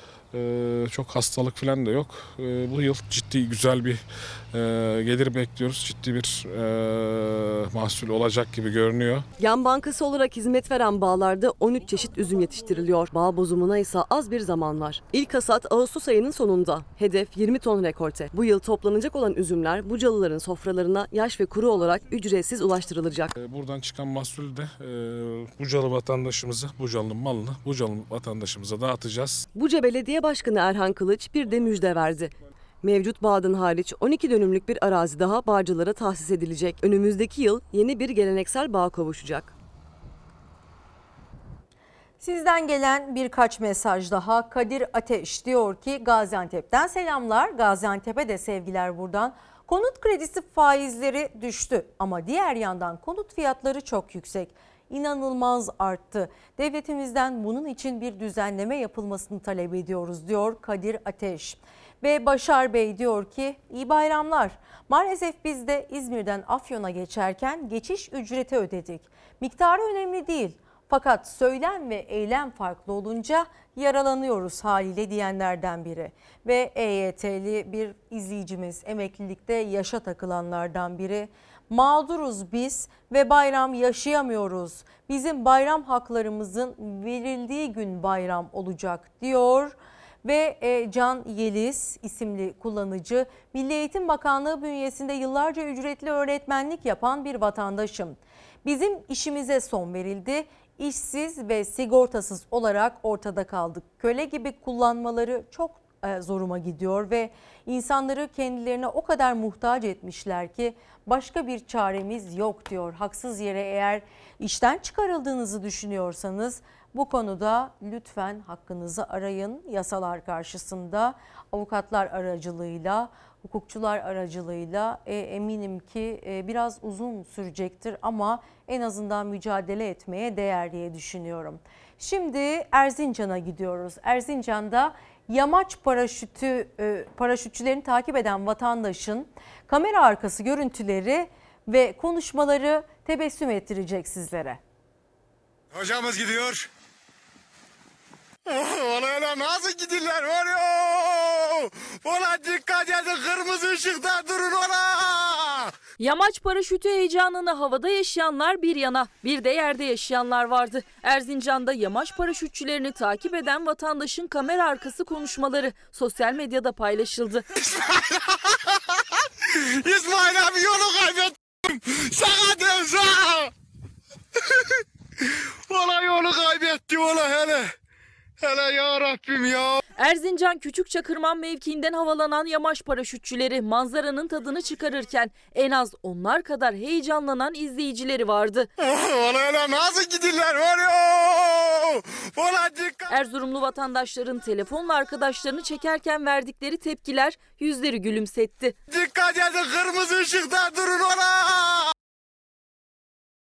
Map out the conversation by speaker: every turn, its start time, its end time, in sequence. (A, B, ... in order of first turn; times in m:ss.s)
0:00.3-0:09.3 A
0:09.4-0:23.3 B
0:23.4-0:29.4 A
0:29.6-0:39.5 B
0:42.2-2:24.6 C
2:25.8-2:26.6 D
2:28.5-2:35.7 D
2:36.0-2:47.4 E
2:49.8-2:51.3 D
2:52.0-2:53.5 D
2:55.7-2:57.7 D
2:58.4-2:59.8 D
3:00.0-3:08.7 E
3:08.9-3:13.1 D
3:13.1-3:18.8 E
3:18.9-3:21.8 D